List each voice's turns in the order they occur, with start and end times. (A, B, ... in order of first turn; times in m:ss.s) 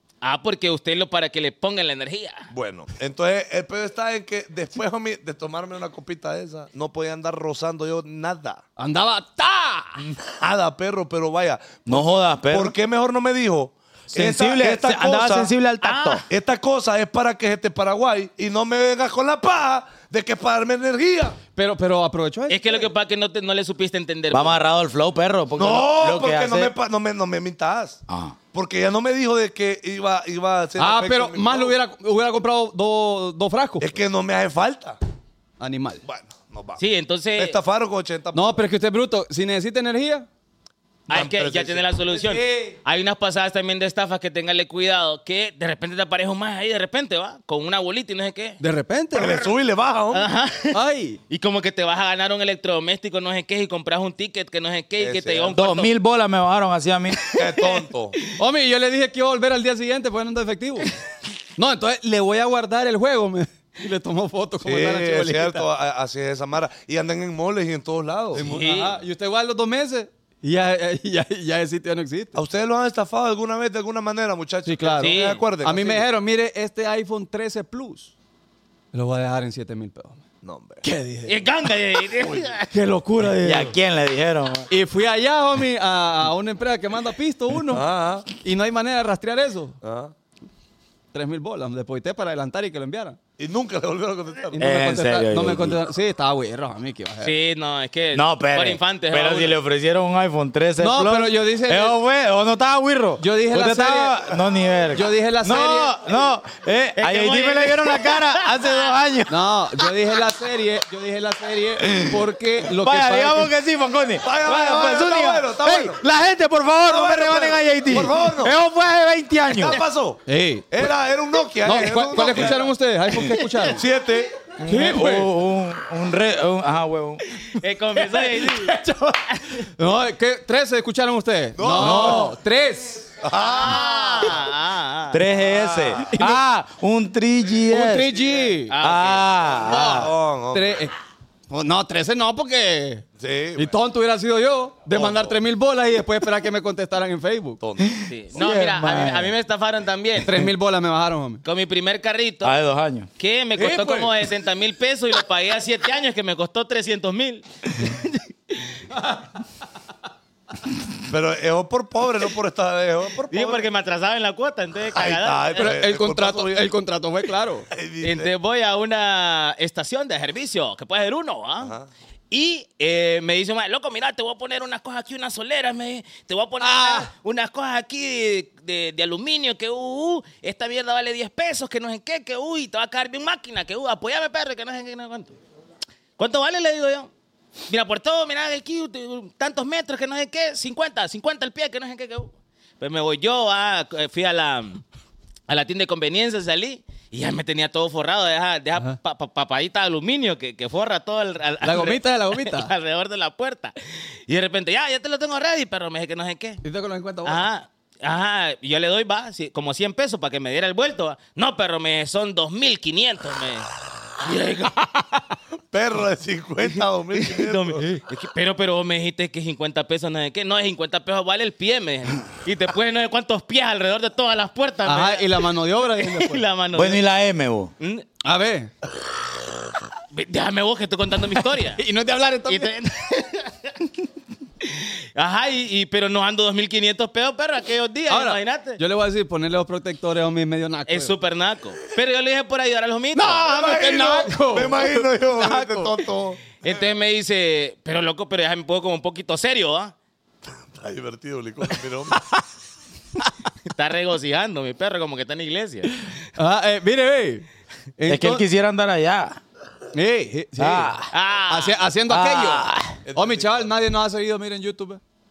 0:00.2-0:02.5 A
0:02.5-0:08.6 B
0:08.8-0:10.0 C
0:10.2-0:15.5 B
0:11.9-0:12.8 D
0:14.1-0:16.2 D
0:15.8-0:16.2 A
0:16.3-0:21.4 B
0:21.6-0:22.9 C
0:22.5-0:24.6 A
0:24.3-0:26.7 D
0:25.6-0:28.0 B
0:28.1-0:28.4 D
0:28.5-0:31.8 B
0:30.8-0:34.0 C
0:33.8-0:35.0 B
0:35.6-0:36.0 C
0:36.0-0:36.8 B
0:36.8-0:37.6 A
0:37.4-0:38.6 B
0:38.3-0:40.3 C
0:41.1-0:41.9 B
0:41.1-0:48.6 A
0:42.1-0:42.7 C
0:48.6-0:49.4 C
0:49.1-0:50.3 B
0:50.1-0:50.8 A
0:50.7-0:51.2 C
0:51.3-0:55.9 A
0:55.0-0:55.6 B
0:55.5-0:57.2 D
0:57.3-0:57.8 A
0:57.3-0:58.2 B
0:58.4-1:00.9 C
1:01.6-1:05.7 C
1:04.6-1:08.4 B
1:08.3-1:12.4 C
1:08.4-1:09.0 A
1:12.4-1:16.1 B
1:14.6-1:18.1 C
1:15.0-1:15.4 A
1:18.9-1:20.2 C
1:20.4-1:20.8 B
1:20.8-1:21.4 C
1:21.3-1:22.7 A
1:22.2-1:22.5 B
1:22.7-1:23.8 C
1:23.4-1:24.7 D
1:24.7-1:27.8 C
1:27.7-1:28.3 B
1:28.4-1:29.8 C
1:29.8-1:30.1 B
1:31.1-1:33.2 C
1:33.4-1:34.6 B
1:34.5-1:37.3 C
1:34.6-1:35.8 D
1:37.2-1:39.6 A
1:38.1-1:49.4 D
1:40.8-1:42.0 C
1:43.2-1:44.2 C
1:44.9-1:45.9 C
1:47.0-1:48.9 A
1:49.3-1:53.5 C
1:51.8-1:59.8 D
1:54.2-1:56.0 B
1:56.9-1:58.6 B
1:59.5-2:02.7 B
2:00.3-2:00.9 C
2:01.6-2:03.8 C
2:03.6-2:04.3 B
2:04.6-2:07.2 D
2:04.7-2:05.3 C
2:07.4-2:08.8 A
2:09.3-2:09.6 A
2:09.8-2:13.1 C
2:11.6-2:12.3 B
2:11.8-2:12.2 D
2:13.2-2:14.4 B
2:13.4-2:15.2 A
2:15.1-2:18.2 D
2:15.4-2:16.0 B
2:16.1-2:16.4 C
2:17.7-2:18.7 C
2:18.7-2:19.2 A
2:18.8-2:20.1 D
2:19.6-2:20.8 B
2:19.7-2:20.9 C
2:21.5-2:23.0 C
2:23.2-2:23.7 B
2:23.6-2:27.6 C
2:24.9-2:25.4 B
2:27.6-2:28.0 B
2:27.8-2:29.3 D
2:28.1-2:30.4 A
2:30.2-2:31.4 C
2:31.4-2:32.6 A
2:32.4-2:33.1 D
2:33.2-2:38.8 A
2:33.6-2:34.1 C
2:39.0-2:39.2 C
2:41.1-2:43.7 B
2:43.3-2:45.7 A
2:44.9-2:46.7 B
2:45.6-2:47.7 C
2:47.7-2:48.3 B
2:48.0-2:51.7 A
2:51.6-2:51.9 B
2:52.3-3:05.4 A
2:56.6-2:57.1 C
3:06.2-3:07.1 A
3:07.7-3:14.8 A
3:15.5-3:23.7 A
3:21.6-3:22.7 C
3:24.3-3:26.6 A
3:26.6-3:27.4 C
3:27.2-3:33.7 A
3:34.2-3:34.9 A
3:35.7-3:38.0 B
3:37.1-3:47.0 A
3:44.9-3:46.4 C
3:46.7-3:47.7 D
3:47.8-3:48.0 A
3:48.2-3:48.7 C
3:50.1-3:51.8 A
3:51.7-3:52.7 C
3:52.5-3:53.8 A
3:54.6-3:58.8 A
3:58.1-4:01.1 C
4:00.9-4:03.5 A
4:03.1-4:06.1 C
4:03.5-4:06.8 B
4:06.6-4:09.9 A
4:10.5-4:12.2 B
4:13.7-4:16.1 A
4:16.3-4:17.5 C
4:18.0-4:18.4 C
4:18.1-4:19.4 D
4:19.9-4:20.9 C
4:20.6-4:21.1 D
4:21.1-4:21.8 A
4:21.5-4:25.0 C
4:22.1-4:23.0 D
4:23.1-4:23.8 B